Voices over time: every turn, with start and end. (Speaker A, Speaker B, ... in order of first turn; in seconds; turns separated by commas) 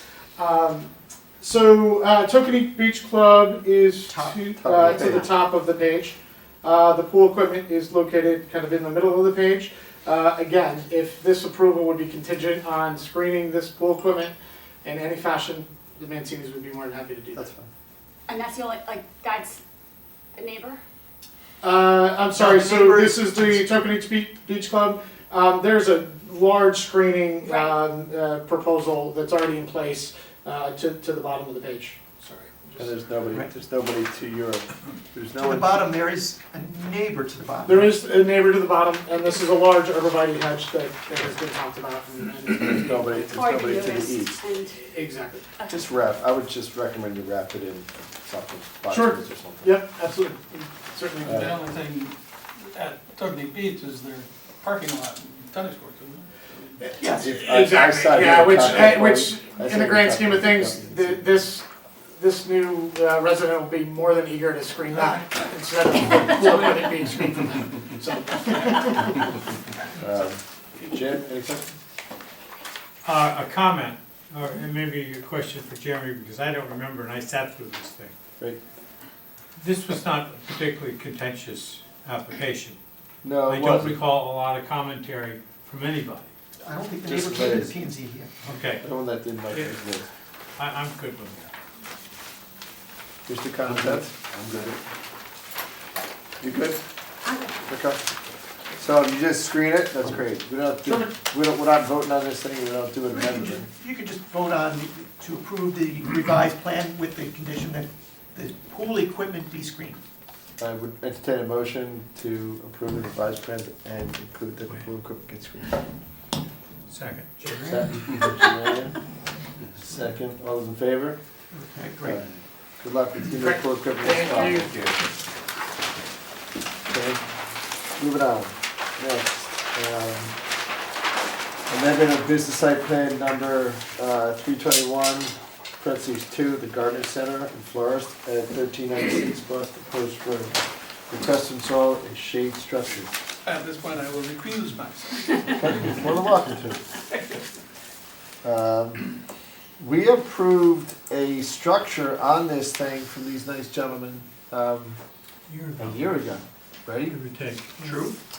Speaker A: 0.4-17.5, Speaker B: 4.1-4.4, Speaker C: 4.6-5.3, Speaker C: 17.4-17.7, Speaker D: 18.3-19.6, Speaker D: 20.4-20.8, Speaker A: 21.6-32.8, Speaker B: 22.3-23.7, Speaker D: 27.5-27.8, Speaker C: 32.8-35.9, Speaker B: 35.4-37.9, Speaker A: 37.6-43.2, Speaker C: 42.7-44.4, Speaker D: 43.3-44.8, Speaker A: 44.8-45.5, Speaker C: 45.7-49.8, Speaker A: 48.9-51.6, Speaker E: 51.2-56.9, Speaker C: 51.3-51.5, Speaker B: 57.0-57.4, Speaker C: 57.1-61.3, Speaker A: 57.2-69.3, Speaker C: 70.0-71.7, Speaker F: 73.0-78.1, Speaker F: 79.6-82.8, Speaker C: 83.2-84.0, Speaker F: 83.5-86.3, Speaker B: 86.6-88.3, Speaker C: 87.0-87.8, Speaker F: 88.4-88.8, Speaker C: 88.8-90.1, Speaker F: 90.6-91.5, Speaker C: 93.3-94.7, Speaker C: 96.4-96.8, Speaker D: 97.3-97.5, Speaker C: 97.7-98.0, Speaker C: 98.8-103.7, Speaker B: 103.1-110.0, Speaker C: 110.6-115.8, Speaker F: 116.9-117.8, Speaker B: 117.4-117.9, Speaker C: 117.6-119.0, Speaker C: 119.8-121.2, Speaker B: 121.5-122.2, Speaker C: 122.0-124.8, Speaker A: 123.4-124.9, Speaker C: 126.9-127.2, Speaker C: 128.0-130.3, Speaker C: 131.7-143.1, Speaker E: 143.4-145.9, Speaker C: 145.6-146.8, Speaker C: 148.4-149.0, Speaker C: 149.8-155.0, Speaker F: 155.5-156.0, Speaker C: 155.8-157.2, Speaker F: 157.0-157.8, Speaker B: 157.8-158.2